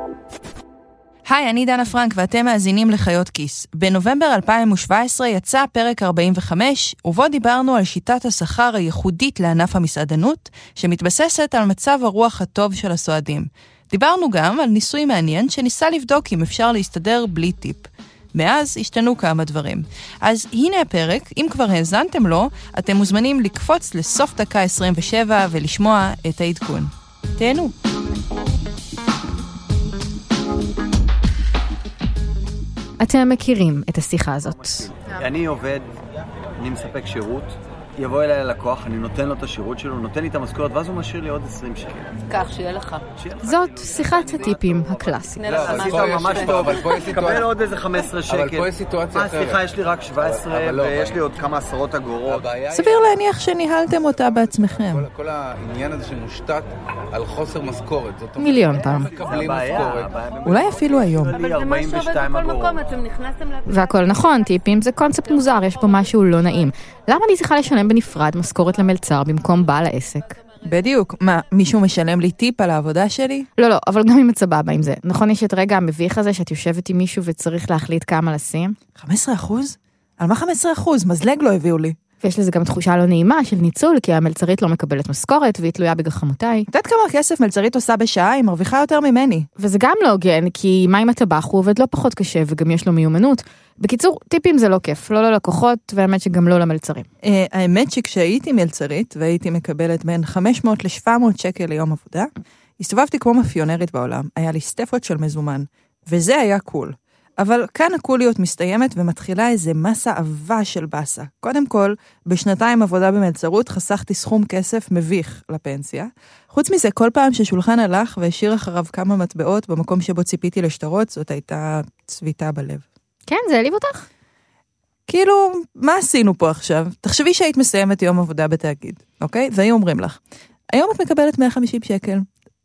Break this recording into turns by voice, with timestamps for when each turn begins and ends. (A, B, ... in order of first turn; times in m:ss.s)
0:01.3-0:27.7 A
0:33.0-0:34.9 B
0:34.5-0:35.9 C
0:36.6-0:42.2 C
0:42.3-0:43.1 D
0:43.2-0:52.7 C
0:43.4-0:45.4 B
0:45.4-0:46.7 D
0:45.4-0:47.5 E
0:48.2-0:49.7 E
0:50.2-0:51.4 E
0:52.2-0:53.0 E
0:52.7-0:55.1 A
0:54.3-1:01.0 E
0:58.4-0:59.1 B
0:59.1-1:02.9 C
1:00.4-1:01.4 A
1:01.4-1:03.2 D
1:03.7-1:10.4 B
1:10.6-1:13.5 A
1:13.6-1:18.8 B
1:19.0-1:22.0 A
1:22.2-1:26.7 B
1:26.7-1:29.5 A
1:29.6-1:37.1 B
1:37.2-2:02.8 A
2:03.3-2:04.0 B
2:05.1-2:10.2 A
2:10.7-2:12.3 A